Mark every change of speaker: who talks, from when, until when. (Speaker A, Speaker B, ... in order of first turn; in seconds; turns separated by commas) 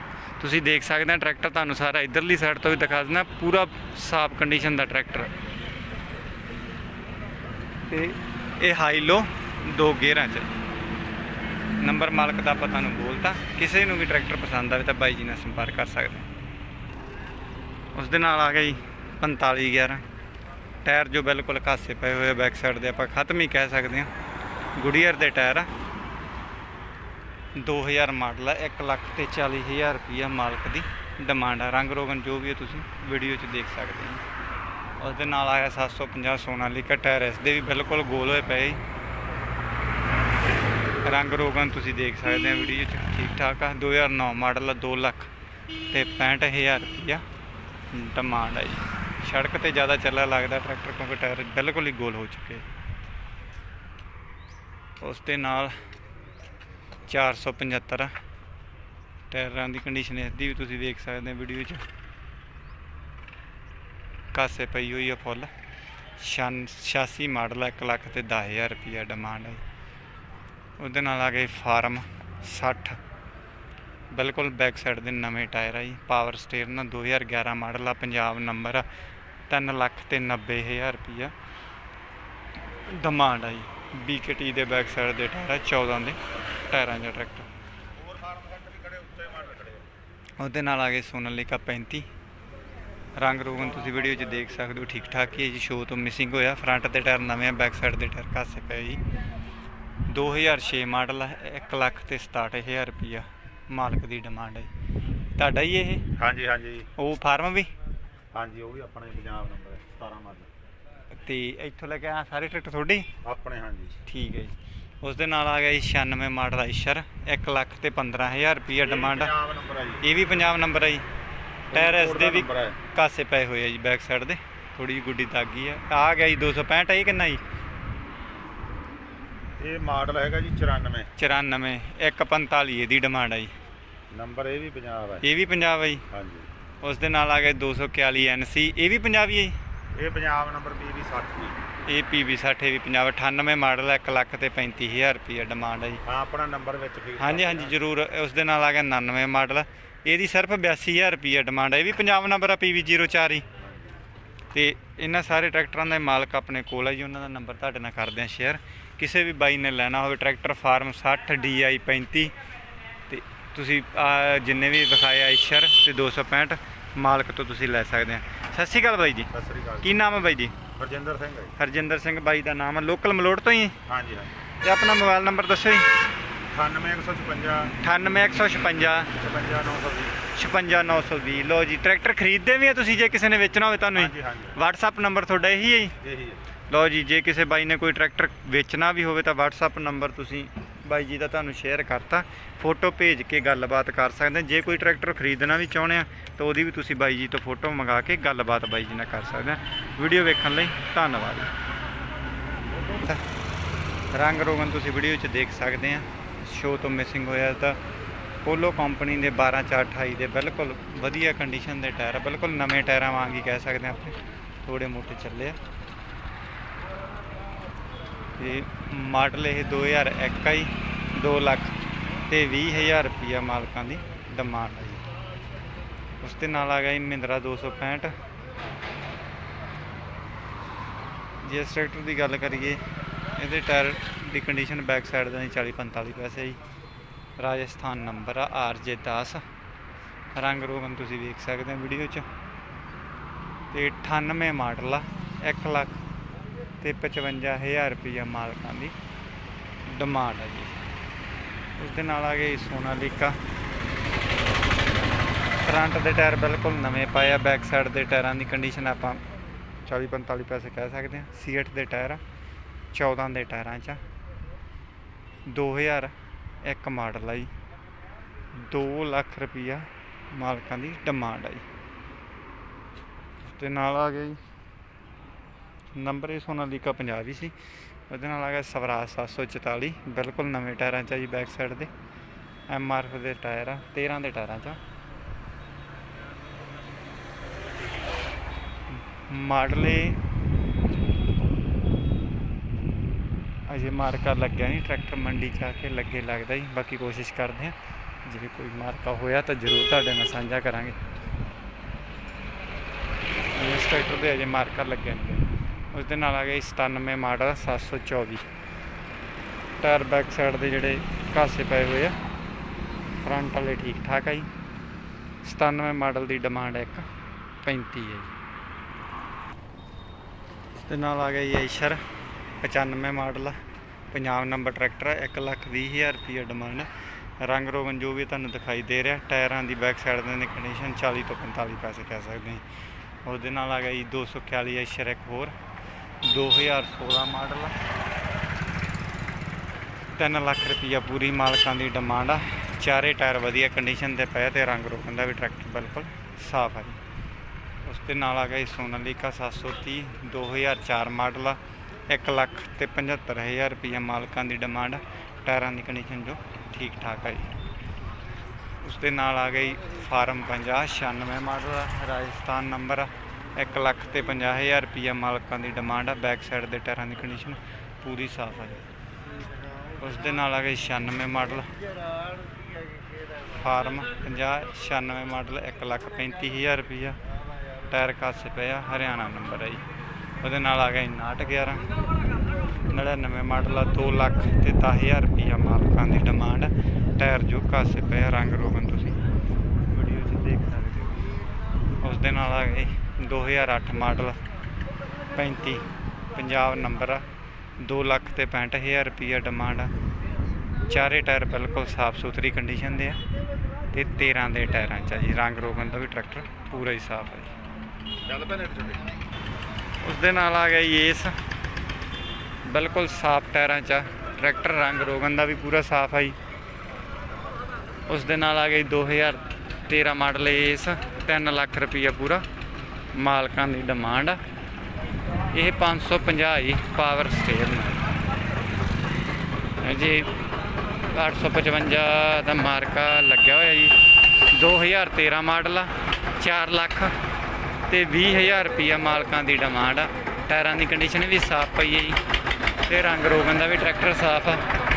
Speaker A: 0.4-5.3, Speaker A: 7.9-10.5, Speaker A: 11.8-16.3, Speaker A: 17.9-20.0, Speaker A: 20.8-24.1, Speaker A: 24.8-25.7, Speaker A: 27.6-34.2, Speaker A: 35.0-38.8, Speaker A: 41.0-45.3, Speaker A: 45.9-47.2, Speaker A: 47.9-52.6, Speaker A: 55.0-55.8, Speaker A: 57.0-58.1, Speaker A: 59.3-61.8, Speaker A: 64.3-65.5, Speaker A: 66.2-69.6, Speaker A: 70.8-73.0, Speaker A: 74.1-78.8, Speaker A: 79.5-81.3, Speaker A: 82.9-87.5, Speaker B: 88.2-89.8, Speaker A: 90.4-92.1, Speaker A: 93.2-99.0, Speaker A: 100.1-104.7, Speaker A: 105.3-106.1, Speaker B: 106.2-106.9, Speaker A: 107.0-107.7, Speaker B: 108.3-110.5, Speaker A: 111.1-113.1, Speaker B: 113.2-114.0, Speaker A: 114.0-119.3, Speaker B: 118.8-120.0, Speaker A: 120.0-121.0, Speaker B: 121.7-122.8, Speaker A: 121.7-127.4, Speaker B: 129.6-131.1, Speaker A: 131.2-133.5, Speaker B: 134.1-135.2, Speaker A: 135.2-136.0, Speaker B: 136.1-136.5, Speaker A: 136.8-139.6, Speaker B: 139.9-141.6, Speaker A: 141.9-146.0, Speaker B: 146.0-147.8, Speaker A: 147.2-153.4, Speaker B: 153.6-153.9, Speaker A: 154.5-162.3, Speaker A: 163.1-169.3, Speaker B: 169.3-169.9, Speaker A: 169.8-170.6, Speaker B: 170.8-171.5, Speaker A: 171.6-173.8, Speaker B: 173.8-174.3, Speaker A: 174.6-175.9, Speaker B: 176.5-177.7, Speaker A: 177.8-179.1, Speaker B: 179.2-180.2, Speaker A: 180.3-185.9, Speaker B: 183.9-184.5, Speaker B: 186.0-186.4, Speaker A: 186.7-201.5, Speaker A: 202.9-203.2, Speaker A: 204.1-207.8, Speaker A: 208.4-215.6, Speaker A: 218.4-221.7, Speaker A: 222.3-225.0, Speaker A: 226.2-228.1, Speaker A: 231.4-232.8, Speaker A: 233.4-236.6, Speaker A: 237.4-239.4, Speaker A: 240.3-242.2, Speaker A: 243.7-246.0, Speaker A: 246.8-248.9, Speaker A: 249.8-250.8, Speaker A: 251.8-253.4, Speaker A: 255.6-259.2, Speaker A: 259.9-262.2, Speaker A: 262.9-264.0, Speaker A: 265.5-267.5, Speaker A: 268.5-271.6, Speaker A: 273.4-274.4, Speaker A: 275.9-277.5, Speaker A: 278.1-281.9, Speaker A: 282.7-284.8, Speaker A: 288.9-290.2, Speaker A: 293.7-297.7, Speaker A: 298.2-300.9, Speaker A: 303.5-308.4, Speaker A: 309.8-312.1, Speaker A: 313.2-314.5, Speaker A: 315.4-317.1, Speaker A: 317.6-318.3, Speaker A: 320.8-322.0, Speaker A: 322.6-323.5, Speaker A: 324.1-326.9, Speaker A: 327.4-332.6, Speaker A: 333.2-335.5, Speaker A: 336.2-337.7, Speaker A: 340.1-347.0, Speaker A: 347.8-351.6, Speaker A: 352.1-357.6, Speaker A: 358.8-368.9, Speaker A: 370.0-371.7, Speaker A: 373.5-377.2, Speaker A: 377.9-379.8, Speaker A: 380.4-381.9, Speaker A: 382.9-389.2, Speaker A: 389.9-391.3, Speaker A: 392.0-394.4, Speaker A: 395.3-397.2, Speaker A: 397.8-399.9, Speaker A: 400.9-403.2, Speaker A: 403.9-407.5, Speaker B: 408.3-409.0, Speaker A: 410.0-411.3, Speaker A: 412.6-416.4, Speaker A: 418.1-422.4, Speaker A: 423.1-424.4, Speaker A: 425.5-428.0, Speaker A: 429.8-430.3, Speaker A: 431.1-433.9, Speaker A: 434.5-437.1, Speaker A: 437.9-442.2, Speaker A: 442.9-444.6